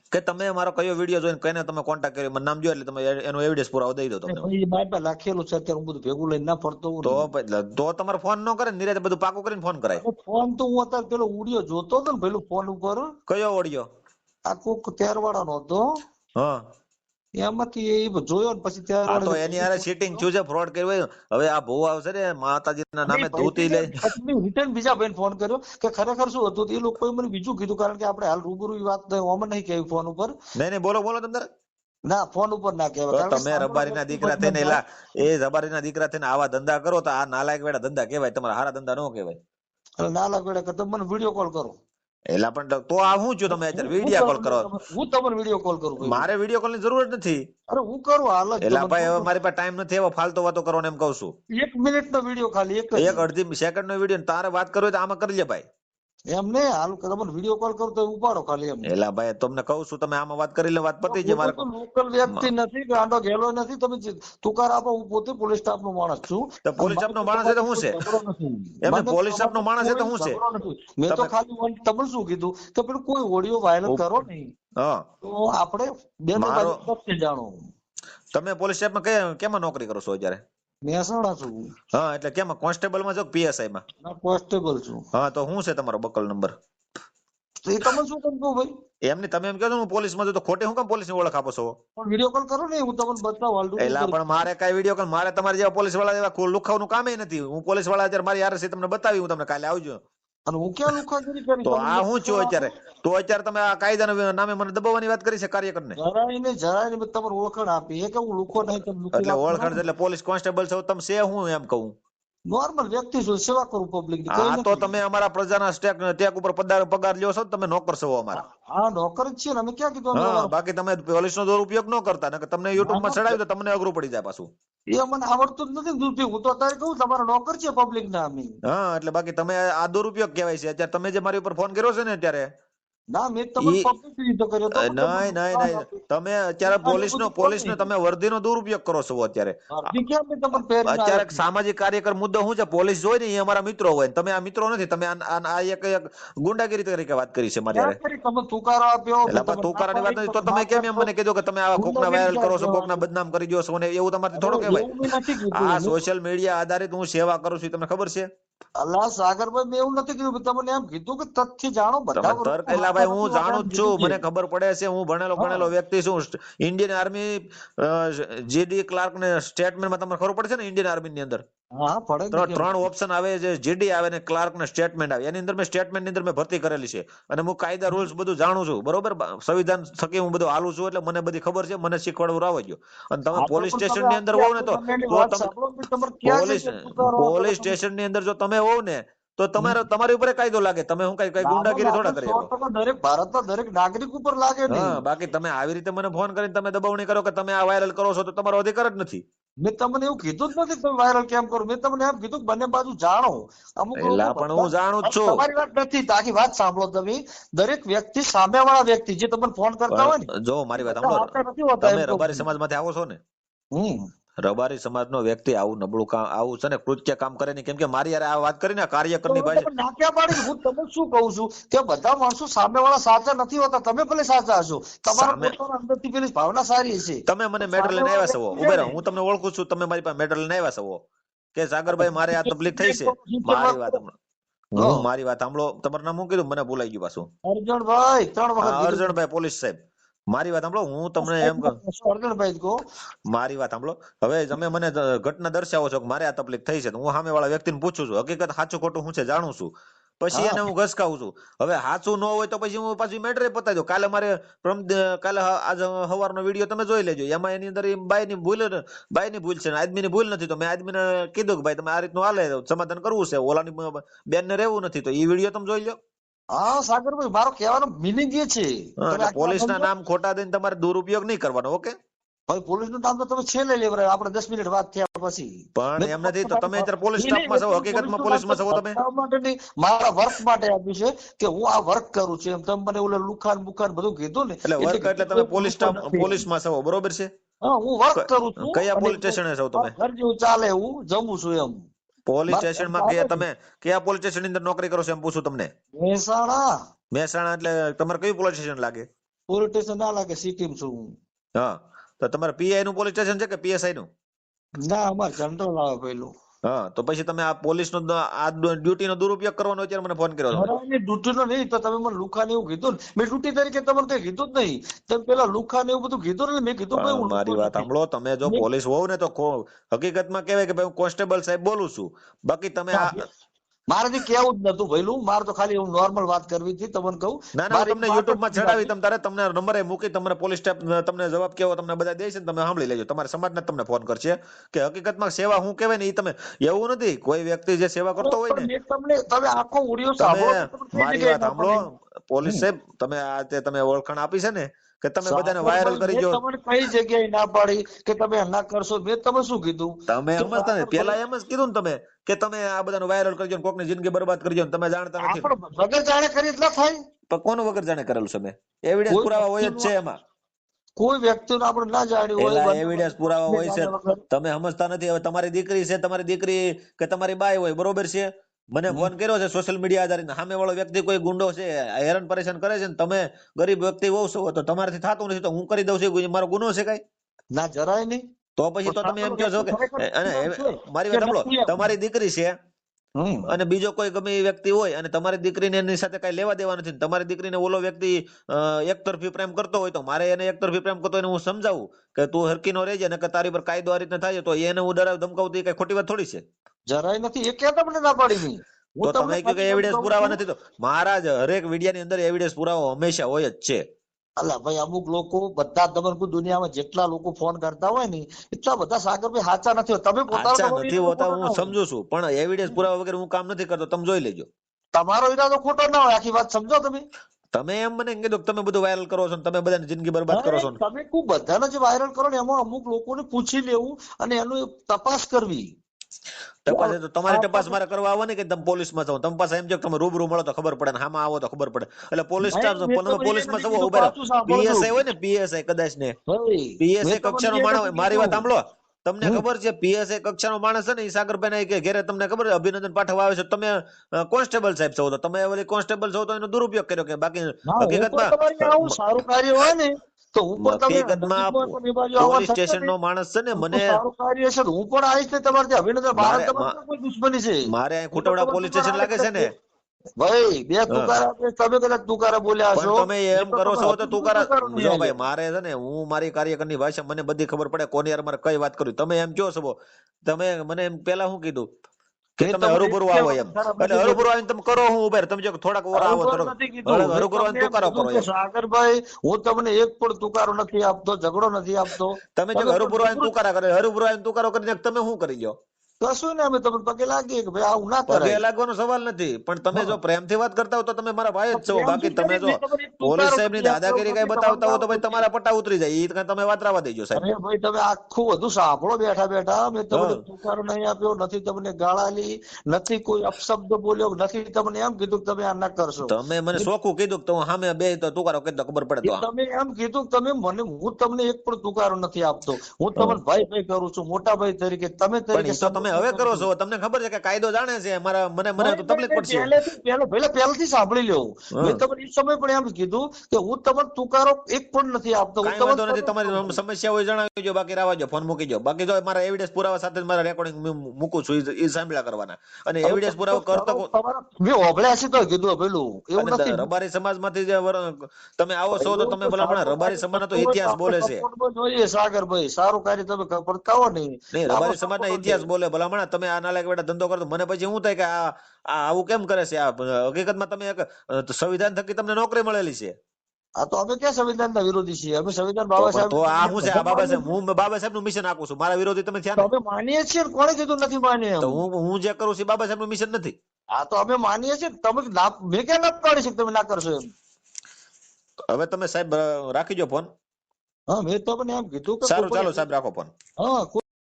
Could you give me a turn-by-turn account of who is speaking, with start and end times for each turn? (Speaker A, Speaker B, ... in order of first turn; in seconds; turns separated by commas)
Speaker A: 0.1-4.5, Speaker B: 4.3-7.3, Speaker A: 7.0-10.0, Speaker B: 10.0-13.1, Speaker A: 13.3-13.9, Speaker B: 14.5-15.8, Speaker A: 16.4-16.6, Speaker B: 17.4-20.2, Speaker A: 19.1-24.0, Speaker B: 23.1-30.3, Speaker A: 30.6-31.5, Speaker B: 32.1-34.8, Speaker A: 33.1-39.4, Speaker B: 40.0-41.7, Speaker A: 42.3-44.7, Speaker B: 43.5-46.3, Speaker A: 46.0-47.4, Speaker B: 47.7-49.3, Speaker A: 48.6-51.3, Speaker B: 51.6-53.2, Speaker A: 53.0-55.6, Speaker B: 56.3-58.9, Speaker A: 58.9-61.6, Speaker B: 61.0-74.5, Speaker A: 66.7-68.0, Speaker A: 68.8-70.4, Speaker A: 74.8-75.0, Speaker B: 75.2-77.6, Speaker A: 76.4-76.8, Speaker A: 78.3-80.4, Speaker B: 80.9-81.7, Speaker A: 81.9-83.8, Speaker B: 84.0-85.0, Speaker A: 85.1-86.5, Speaker B: 87.6-88.7, Speaker A: 89.1-91.7, Speaker B: 92.0-94.5, Speaker A: 93.8-100.0, Speaker B: 100.5-102.6, Speaker A: 101.6-106.0, Speaker B: 106.0-109.8, Speaker A: 109.1-112.0, Speaker B: 112.5-115.0, Speaker A: 114.3-118.4, Speaker B: 118.4-120.5, Speaker A: 120.2-124.5, Speaker B: 122.8-123.4, Speaker B: 125.0-128.6, Speaker A: 128.7-132.5, Speaker B: 133.1-136.0, Speaker A: 133.6-133.9, Speaker A: 134.7-139.6, Speaker B: 136.6-137.9, Speaker B: 139.7-141.4, Speaker A: 140.9-148.0, Speaker B: 147.7-151.1, Speaker A: 149.3-155.0, Speaker B: 151.8-153.0, Speaker B: 154.3-156.0, Speaker A: 155.5-158.3, Speaker B: 158.8-164.2, Speaker A: 162.2-171.4, Speaker B: 165.4-165.7, Speaker B: 171.8-172.8, Speaker A: 172.3-185.5, Speaker B: 183.3-187.8, Speaker A: 186.2-192.5, Speaker B: 191.4-195.0, Speaker A: 194.7-199.2, Speaker B: 199.6-210.3, Speaker A: 204.0-205.4, Speaker A: 209.9-211.3, Speaker B: 210.8-212.4, Speaker A: 211.8-213.2, Speaker B: 213.8-214.0, Speaker A: 214.4-219.7, Speaker B: 219.3-229.0, Speaker A: 225.1-225.6, Speaker A: 227.3-231.0, Speaker A: 231.6-234.1, Speaker B: 231.9-234.0, Speaker A: 234.8-237.3, Speaker B: 234.8-235.1, Speaker B: 237.4-239.1, Speaker A: 238.6-239.8, Speaker A: 240.3-241.8, Speaker B: 241.2-242.8, Speaker A: 243.3-266.0, Speaker B: 250.3-250.7, Speaker B: 266.5-269.9, Speaker A: 269.0-272.0, Speaker B: 272.5-286.4, Speaker A: 275.8-279.0, Speaker A: 284.6-287.3, Speaker B: 287.6-291.8, Speaker A: 288.2-289.9, Speaker A: 292.3-295.7, Speaker B: 292.5-293.4, Speaker B: 296.0-296.7, Speaker A: 297.1-299.1, Speaker B: 299.5-301.1, Speaker A: 301.6-304.1, Speaker B: 304.8-306.3, Speaker A: 306.7-310.7, Speaker B: 310.5-317.9, Speaker A: 317.0-323.2, Speaker B: 322.9-323.3, Speaker B: 323.9-328.9, Speaker A: 327.5-338.7, Speaker B: 338.2-341.9, Speaker A: 340.2-346.4, Speaker B: 345.2-351.2, Speaker A: 350.1-355.5, Speaker B: 355.2-357.0, Speaker A: 357.3-360.2, Speaker B: 359.1-359.9, Speaker B: 361.0-364.2, Speaker A: 362.4-377.0, Speaker B: 377.5-378.2, Speaker A: 378.6-382.6, Speaker B: 378.9-381.9, Speaker B: 383.2-383.5, Speaker A: 383.5-396.4, Speaker B: 396.9-400.4, Speaker A: 399.0-403.8, Speaker B: 404.4-411.7, Speaker A: 410.3-414.5, Speaker B: 414.9-417.1, Speaker A: 417.5-420.8, Speaker B: 420.3-425.7, Speaker A: 426.6-436.1, Speaker B: 426.7-427.8, Speaker B: 432.4-435.0, Speaker B: 436.3-438.5, Speaker A: 436.8-448.9, Speaker B: 447.7-452.9, Speaker A: 450.6-454.0, Speaker B: 453.6-459.5, Speaker A: 456.1-456.7, Speaker A: 457.7-459.5, Speaker B: 460.2-465.1, Speaker A: 462.8-471.7, Speaker A: 472.4-478.3, Speaker B: 472.4-474.3, Speaker B: 475.9-483.3, Speaker A: 482.4-485.6, Speaker B: 486.0-488.4, Speaker A: 488.1-497.2, Speaker B: 491.5-495.3, Speaker B: 497.1-506.7, Speaker A: 499.9-500.2, Speaker A: 506.1-509.2, Speaker B: 509.0-516.5, Speaker A: 515.3-519.5, Speaker B: 518.6-526.6, Speaker A: 525.4-533.9, Speaker B: 532.8-536.7, Speaker A: 536.2-541.2, Speaker B: 538.8-545.5, Speaker A: 544.3-553.0, Speaker B: 553.6-557.4, Speaker A: 555.8-559.5, Speaker B: 559.4-561.6, Speaker A: 561.4-563.4, Speaker B: 563.8-567.1, Speaker A: 568.5-570.1, Speaker B: 570.9-572.6, Speaker A: 572.0-573.1, Speaker B: 573.4-573.8